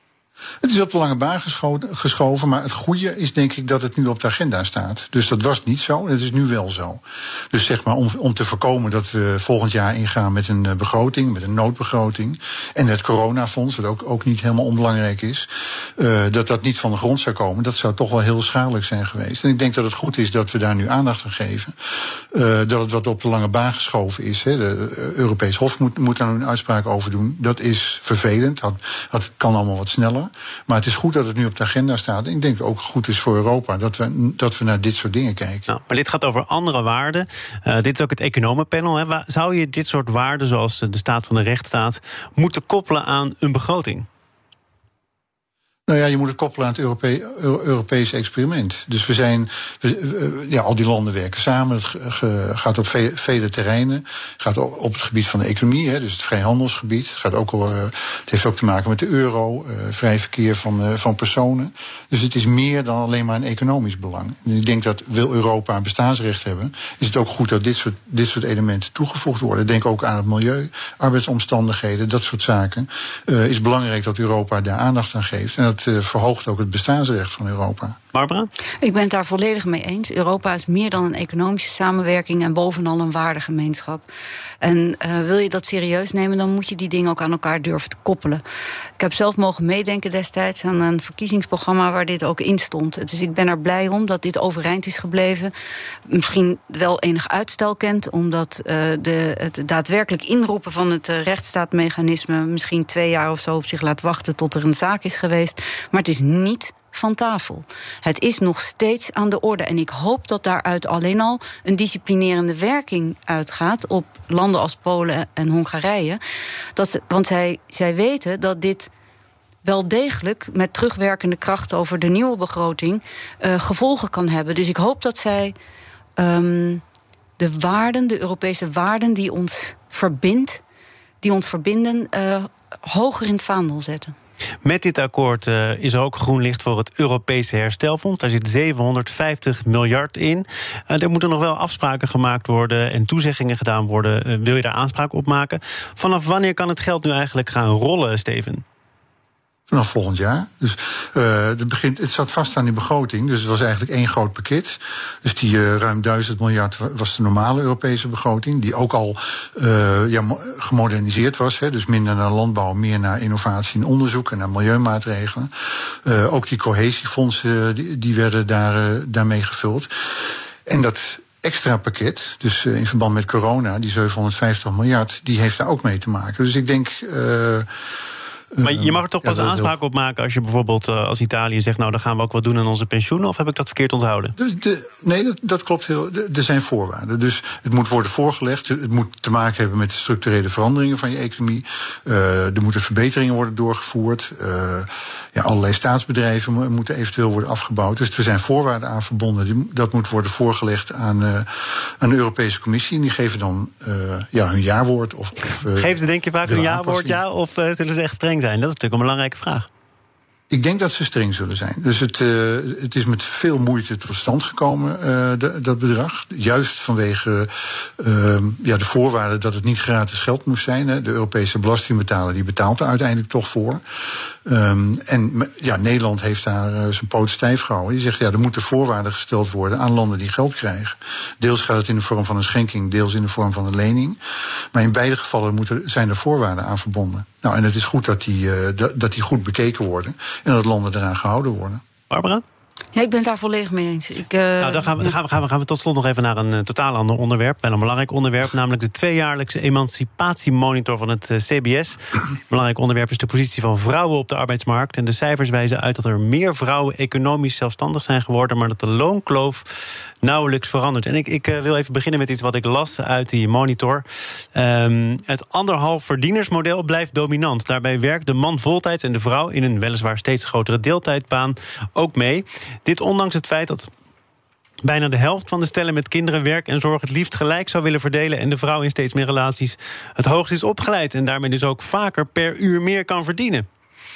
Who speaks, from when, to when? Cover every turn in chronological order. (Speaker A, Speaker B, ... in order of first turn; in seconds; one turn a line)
Speaker A: 0.6-35.7
Speaker B: 35.7-44.1
Speaker A: 45.9-78.0
Speaker B: 78.1-78.5
Speaker C: 78.8-84.0
Speaker C: 84.6-88.4
Speaker C: 89.0-95.5
Speaker C: 96.1-116.2
Speaker C: 116.7-118.9
Speaker C: 119.6-125.5
Speaker C: 126.2-126.8
Speaker C: 127.4-130.6
Speaker C: 131.2-134.1
Speaker B: 134.6-148.6
Speaker A: 149.7-177.7
Speaker A: 178.5-179.7
Speaker B: 178.6-184.3
Speaker A: 184.4-207.2
Speaker B: 205.7-209.7
Speaker A: 210.5-223.8
Speaker A: 224.4-234.2
Speaker A: 234.7-241.8
Speaker B: 242.1-242.4
Speaker C: 242.9-245.1
Speaker B: 244.6-259.7
Speaker B: 260.2-273.9
Speaker B: 274.8-283.6